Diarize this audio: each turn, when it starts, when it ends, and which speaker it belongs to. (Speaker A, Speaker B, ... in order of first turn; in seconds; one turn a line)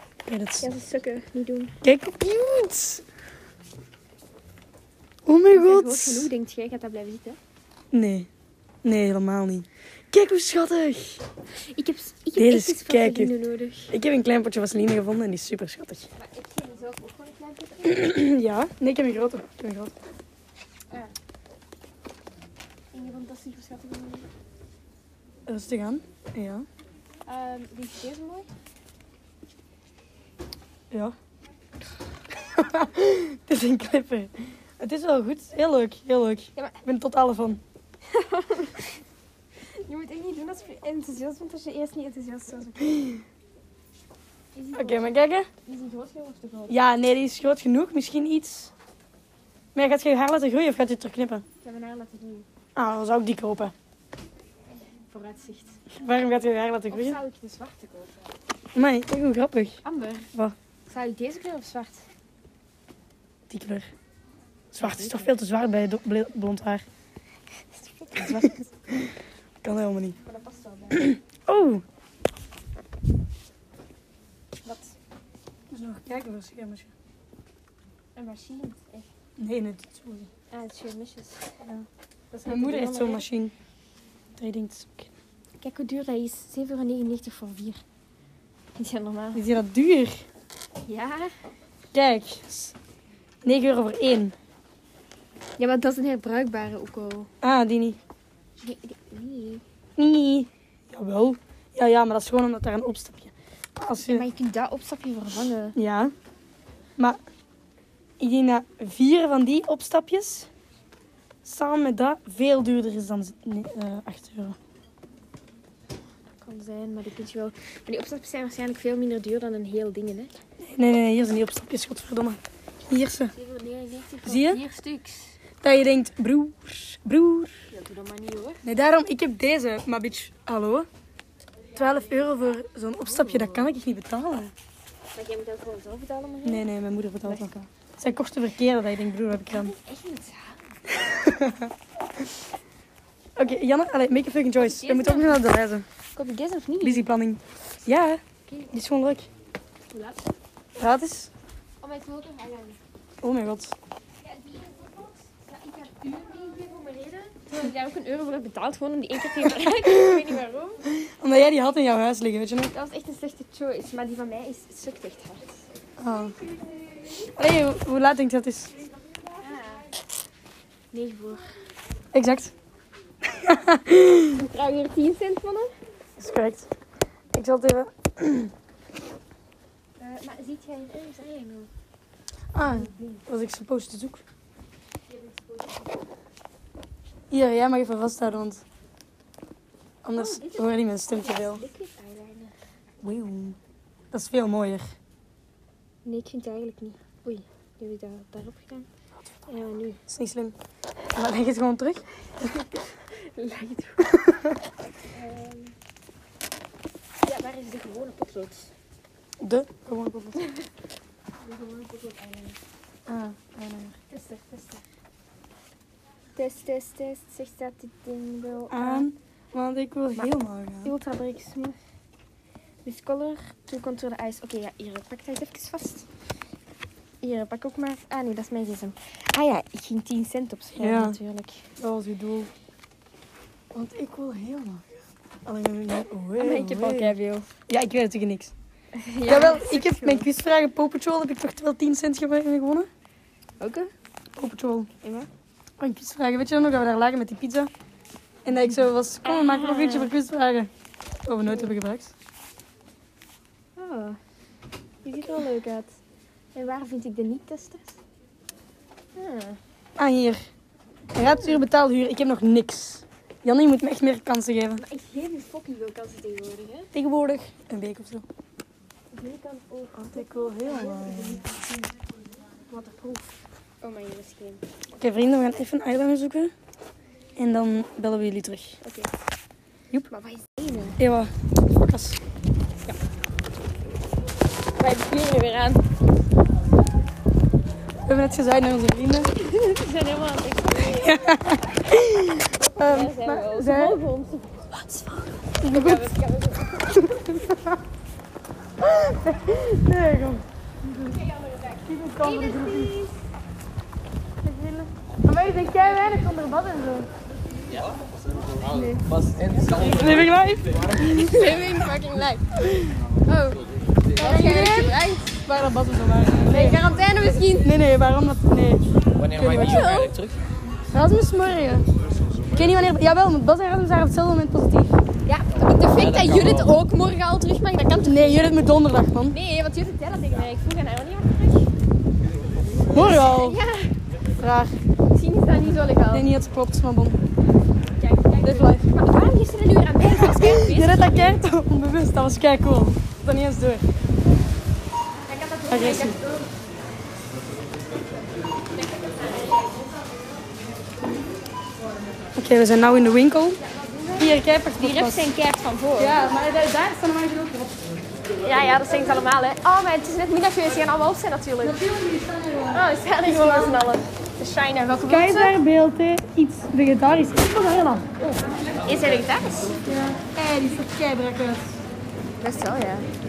Speaker A: 0.3-0.7
Speaker B: 0.6-1.8
Speaker A: 1.8-3.0
Speaker A: 5.2-6.3
Speaker B: 5.5-7.4
Speaker A: 7.9-8.3
Speaker A: 8.8-11.2
Speaker B: 11.7-13.9
Speaker A: 12.4-13.4
Speaker A: 13.9-16.1
Speaker B: 16.2-18.1
Speaker A: 17.8-19.9
Speaker B: 22.9-24.3
Speaker A: 25.5-26.7
Speaker B: 27.3-28.5
Speaker A: 32.4-37.6
Speaker B: 38.1-39.0
Speaker B: 39.8-43.2
Speaker B: 44.5-46.7
Speaker A: 44.8-45.5
Speaker A: 46.7-48.7
Speaker A: 49.8-51.4
Speaker B: 51.6-52.5
Speaker A: 52.8-53.7
Speaker B: 55.1-55.8
Speaker A: 55.9-57.2
Speaker B: 56.9-58.2
Speaker A: 58.8-59.8
Speaker B: 59.8-60.3
Speaker B: 60.9-62.0
Speaker A: 63.5-63.9
Speaker A: 64.7-66.8
Speaker B: 64.8-65.3
Speaker B: 67.7-68.6
Speaker A: 68.2-70.2
Speaker B: 70.2-71.1
Speaker A: 70.9-71.8
Speaker B: 74.7-75.0
Speaker A: 75.7-76.9
Speaker B: 78.2-79.1
Speaker A: 79.4-80.3
Speaker B: 80.5-81.5
Speaker B: 82.3-83.3
Speaker A: 82.5-83.5
Speaker A: 84.4-85.1
Speaker B: 85.6-87.8
Speaker B: 88.8-89.4
Speaker A: 89.3-90.2
Speaker B: 90.8-91.3
Speaker A: 91.9-92.8
Speaker A: 93.4-94.3
Speaker B: 95.6-97.3
Speaker A: 97.4-98.0
Speaker B: 98.6-99.6
Speaker A: 100.0-104.2
Speaker B: 104.0-105.8
Speaker A: 105.8-106.1
Speaker A: 108.2-110.5
Speaker A: 111.4-114.6
Speaker B: 116.4-120.3
Speaker A: 120.6-123.3
Speaker B: 123.3-125.3
Speaker A: 124.2-124.6
Speaker A: 125.6-127.5
Speaker B: 127.7-128.6
Speaker A: 128.6-130.9
Speaker A: 131.8-134.5
Speaker B: 133.1-133.7
Speaker B: 135.1-136.7
Speaker A: 136.4-139.7
Speaker B: 137.2-137.5
Speaker B: 139.3-140.6
Speaker A: 140.9-141.7
Speaker A: 143.4-145.8
Speaker B: 144.6-145.4
Speaker B: 146.2-147.1
Speaker A: 146.8-148.2
Speaker A: 148.7-149.3
Speaker B: 149.9-150.3
Speaker A: 150.8-151.3
Speaker B: 151.8-152.8
Speaker A: 153.2-153.8
Speaker B: 154.2-160.9
Speaker A: 159.6-160.2
Speaker A: 160.9-162.7
Speaker B: 162.6-165.7
Speaker A: 166.0-166.4
Speaker A: 167.4-168.7
Speaker B: 169.3-169.9
Speaker B: 170.9-171.5
Speaker A: 172.1-172.5
Speaker A: 173.2-174.4
Speaker B: 174.3-175.7
Speaker A: 176.2-176.7
Speaker A: 177.3-178.5
Speaker B: 180.0-181.7
Speaker A: 182.5-184.2
Speaker B: 182.7-183.2
Speaker B: 185.1-186.0
Speaker A: 187.3-188.6
Speaker A: 190.0-191.6
Speaker B: 190.1-192.5
Speaker A: 193.0-193.6
Speaker A: 194.1-194.8
Speaker B: 196.1-198.9
Speaker B: 199.5-200.0
Speaker A: 200.1-200.6
Speaker A: 201.2-202.0
Speaker B: 202.4-204.2
Speaker A: 204.1-204.6
Speaker B: 205.1-205.7
Speaker B: 207.2-208.7
Speaker A: 209.4-210.4
Speaker B: 210.4-210.7
Speaker B: 211.4-212.6
Speaker A: 213.1-214.0
Speaker B: 214.1-214.8
Speaker B: 216.4-219.1
Speaker A: 218.7-220.9
Speaker B: 220.8-221.8
Speaker B: 222.8-226.1
Speaker B: 227.2-231.7
Speaker A: 230.8-231.2
Speaker A: 231.8-232.5
Speaker A: 233.7-237.2
Speaker B: 236.4-237.5
Speaker A: 237.7-238.5
Speaker B: 239.0-240.3
Speaker A: 239.3-242.9
Speaker B: 243.6-243.9
Speaker A: 244.4-244.9
Speaker B: 245.0-245.3
Speaker A: 245.8-247.7
Speaker A: 248.4-250.7
Speaker B: 249.2-250.1
Speaker A: 251.2-252.1
Speaker B: 251.4-251.8
Speaker B: 253.8-254.2
Speaker B: 255.0-255.9
Speaker B: 256.6-258.0
Speaker B: 259.1-259.6
Speaker A: 260.0-260.4
Speaker A: 261.1-264.8
Speaker B: 261.2-261.6
Speaker B: 264.8-266.9
Speaker A: 266.9-268.2
Speaker B: 269.1-272.0
Speaker A: 270.1-271.4
Speaker B: 272.7-274.6
Speaker A: 275.0-276.5
Speaker A: 277.4-278.8
Speaker B: 278.8-279.1
Speaker B: 280.1-281.0
Speaker A: 281.0-282.2
Speaker B: 284.8-285.8
Speaker A: 288.1-289.3
Speaker B: 289.3-291.2
Speaker A: 290.8-294.0
Speaker B: 292.5-294.9
Speaker A: 295.6-296.1
Speaker B: 295.7-297.4
Speaker A: 297.1-297.8
Speaker A: 298.8-300.4
Speaker B: 300.9-303.1
Speaker A: 301.9-303.0
Speaker A: 304.4-307.1
Speaker C: 308.5-311.0
Speaker A: 309.7-311.3
Speaker B: 311.0-312.5
Speaker A: 312.6-313.0
Speaker B: 313.2-313.6
Speaker B: 314.2-315.4
Speaker A: 314.2-316.8
Speaker B: 316.5-317.7
Speaker A: 317.5-318.8
Speaker C: 319.2-320.4
Speaker A: 319.4-319.9
Speaker B: 319.6-320.1
Speaker A: 320.9-321.9
Speaker A: 322.5-324.9
Speaker B: 325.3-328.6
Speaker C: 325.6-326.8
Speaker A: 328.0-329.4
Speaker B: 329.3-331.7
Speaker A: 332.9-333.6
Speaker B: 332.9-333.9
Speaker A: 334.4-334.8
Speaker B: 335.1-336.3
Speaker A: 336.1-337.2
Speaker B: 338.0-341.4
Speaker A: 338.4-338.9
Speaker A: 340.0-343.9
Speaker B: 345.2-346.5
Speaker A: 345.7-346.2
Speaker B: 348.7-350.0
Speaker A: 352.4-353.6
Speaker B: 353.6-356.2
Speaker A: 354.2-355.3
Speaker A: 356.0-357.8
Speaker B: 358.4-361.8
Speaker A: 361.6-363.9
Speaker B: 362.7-365.6
Speaker A: 365.0-368.1
Speaker B: 368.8-369.8
Speaker A: 369.9-371.8
Speaker B: 372.4-373.1